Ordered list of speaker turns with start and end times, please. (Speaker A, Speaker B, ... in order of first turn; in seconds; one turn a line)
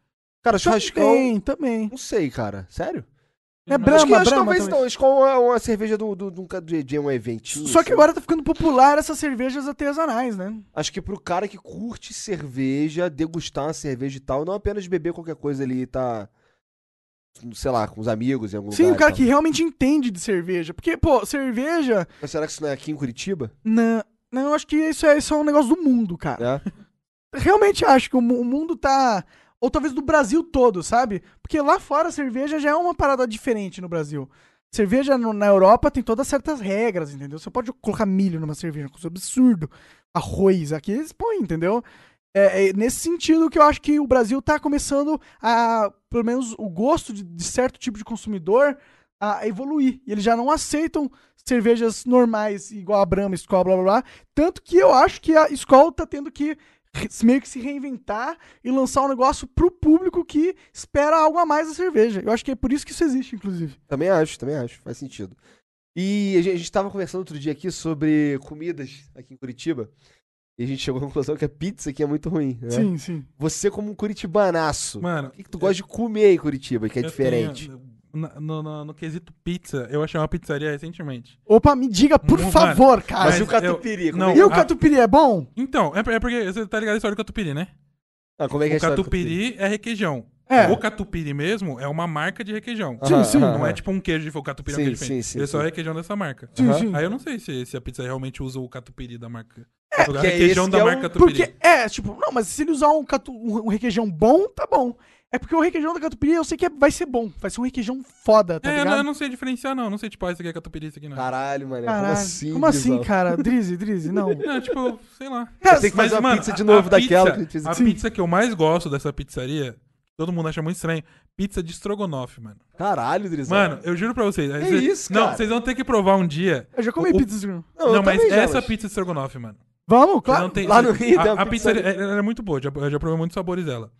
Speaker A: 0.4-1.3
Speaker B: 0.6-1.9
Speaker A: 1.9-3.0
Speaker C: 3.7-4.1
Speaker B: 3.7-4.8
Speaker A: 3.8-8.0
Speaker B: 7.5-10.6
Speaker A: 10.7-16.3
Speaker A: 17.4-19.2
Speaker B: 18.7-22.1
Speaker A: 22.2-23.5
Speaker B: 23.6-26.4
Speaker A: 26.4-26.6
Speaker B: 27.3-63.8
Speaker A: 63.9-65.4
Speaker A: 65.9-69.9
Speaker A: 70.6-77.7
Speaker B: 72.7-73.3
Speaker C: 75.0-75.8
Speaker C: 77.0-81.4
Speaker B: 81.5-83.5
Speaker C: 82.2-84.7
Speaker A: 83.2-84.6
Speaker B: 84.3-85.5
Speaker C: 85.5-87.7
Speaker A: 88.4-89.3
Speaker C: 88.7-101.5
Speaker B: 90.5-90.8
Speaker A: 93.0-93.8
Speaker B: 93.0-93.5
Speaker A: 94.7-95.7
Speaker A: 96.5-96.9
Speaker B: 96.5-97.0
Speaker A: 100.0-101.1
Speaker B: 101.2-109.0
Speaker C: 108.6-111.2
Speaker A: 111.1-113.5
Speaker B: 111.8-114.5
Speaker A: 114.4-114.6
Speaker C: 114.4-122.6
Speaker B: 115.6-116.0
Speaker A: 115.7-117.8
Speaker B: 117.7-118.0
Speaker A: 122.8-123.7
Speaker C: 123.5-127.3
Speaker A: 124.6-125.4
Speaker B: 126.8-127.7
Speaker A: 127.8-128.7
Speaker C: 127.8-129.6
Speaker B: 129.9-130.6
Speaker C: 130.3-133.9
Speaker A: 130.6-131.9